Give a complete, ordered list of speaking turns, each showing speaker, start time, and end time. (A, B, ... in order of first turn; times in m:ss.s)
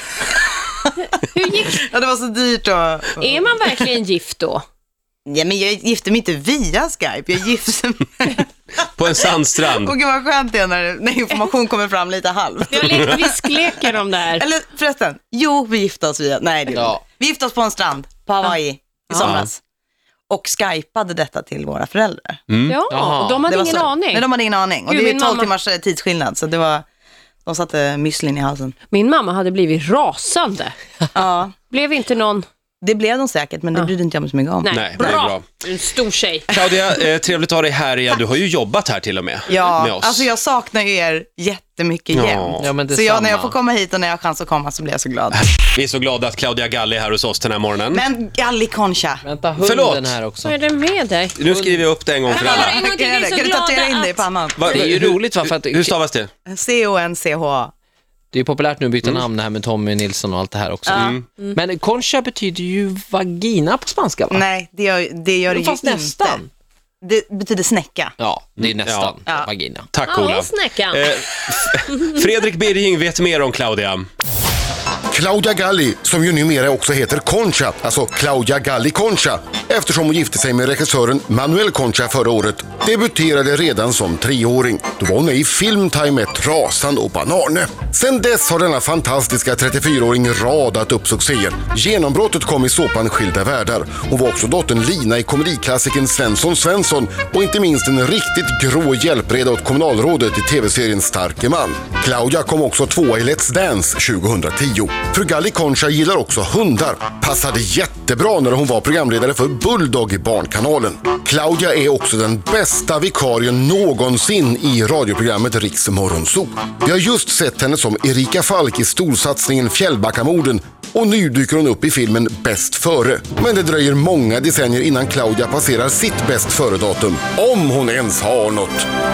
0:00.3-0:00.9 A
0:01.2-0:01.8 B
0:01.6-0:03.5 A
0:03.2-0:04.6 B
0:05.2-0:08.5 A
0:08.9-0:09.9 C
0:09.6-0:19.6 A
0:12.7-0:14.4 B
0:16.7-0:17.0 D
0:19.1-0:19.3 B
0:19.2-0:19.5 C
0:20.3-0:22.4 A
0:22.5-0:22.8 C
0:22.7-0:24.3 B
0:22.9-0:23.7 D
0:23.4-0:26.8 A
0:24.8-0:25.5 B
0:27.4-0:28.7 A
0:28.9-0:30.8 B
0:31.1-0:31.5 A
0:31.7-0:32.4 B
0:32.8-0:35.1 A
0:34.6-0:36.5 B
0:34.7-0:35.4 C
0:36.5-0:40.3 C
0:39.5-0:45.4 A
0:42.1-0:42.7 C
0:42.6-0:43.5 D
0:45.3-0:48.0 C
0:47.9-0:49.2 A
0:49.2-0:50.5 D
0:49.6-0:50.2 C
0:50.4-0:51.4 B
0:51.4-0:52.8 C
0:51.4-0:51.8 D
0:52.3-0:54.3 B
0:52.3-0:54.7 A
0:54.6-0:56.3 C
0:54.6-0:55.9 D
0:56.4-0:57.7 A
0:58.3-1:04.4 D
1:00.8-1:01.2 A
1:00.9-1:01.2 C
1:04.3-1:06.4 A
1:05.5-1:06.5 D
1:07.0-1:08.1 A
1:08.2-1:09.9 D
1:08.6-1:09.1 C
1:09.9-1:14.0 C
1:10.1-1:11.0 B
1:15.1-2:08.8 E